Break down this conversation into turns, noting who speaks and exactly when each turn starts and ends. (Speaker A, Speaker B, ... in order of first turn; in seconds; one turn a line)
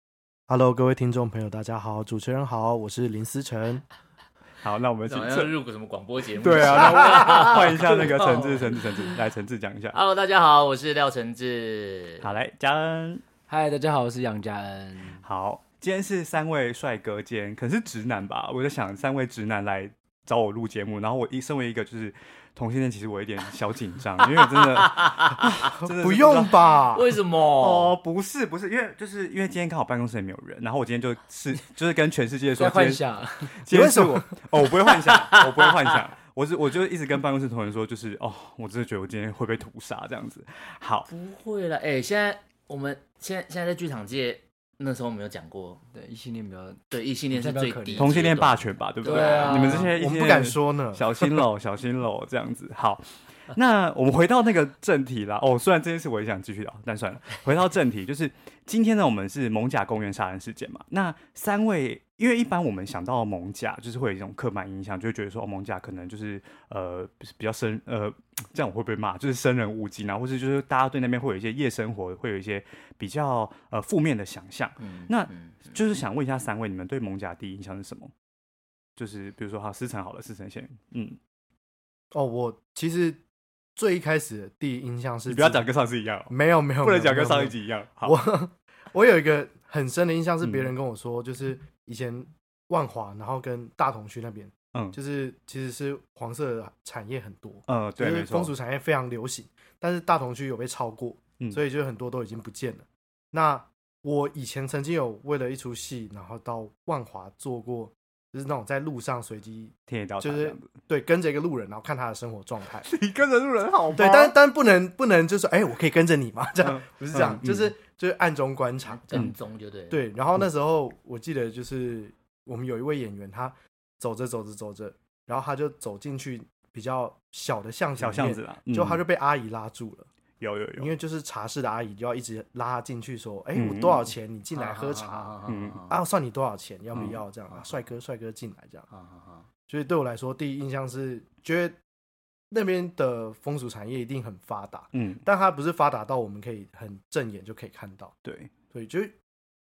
Speaker A: 0.5-3.8
Speaker B: 4.6-5.5
Speaker C: 5.1-9.1
Speaker B: 6.4-10.0
Speaker C: 9.9-12.3
Speaker B: 12.2-13.2
Speaker D: 13.5-15.2
Speaker B: 15.2-26.8
Speaker C: 24.2-25.6
Speaker A: 25.8-27.1
Speaker C: 26.9-28.0
Speaker B: 27.6-33.0
Speaker D: 32.6-33.6
Speaker B: 33.6-41.1
Speaker A: 33.7-34.3
Speaker C: 34.9-36.0
Speaker C: 41.1-45.8
Speaker D: 45.9-48.3
Speaker C: 46.9-49.9
Speaker B: 48.0-78.1
Speaker D: 49.0-49.9
Speaker A: 49.9-51.4
Speaker C: 74.8-75.8
Speaker B: 79.0-81.2
Speaker A: 82.1-83.2
Speaker A: 83.8-85.7
Speaker B: 85.3-88.2
Speaker A: 86.3-112.9
Speaker B: 90.4-90.7
Speaker B: 97.7-98.5
Speaker B: 109.9-110.7
Speaker B: 112.8-114.3
Speaker A: 113.9-119.3
Speaker B: 116.6-117.7
Speaker C: 118.9-120.0
Speaker A: 119.9-130.1
Speaker B: 128.0-129.0
Speaker B: 130.4-130.9
Speaker A: 130.8-135.4
Speaker B: 133.5-134.1
Speaker C: 134.6-136.0
Speaker B: 135.5-135.8
Speaker A: 135.9-138.9
Speaker B: 136.9-137.2
Speaker C: 138.9-139.5
Speaker A: 139.7-141.8
Speaker A: 142.5-148.1
Speaker B: 144.9-145.2
Speaker B: 148.2-148.5
Speaker A: 148.7-149.2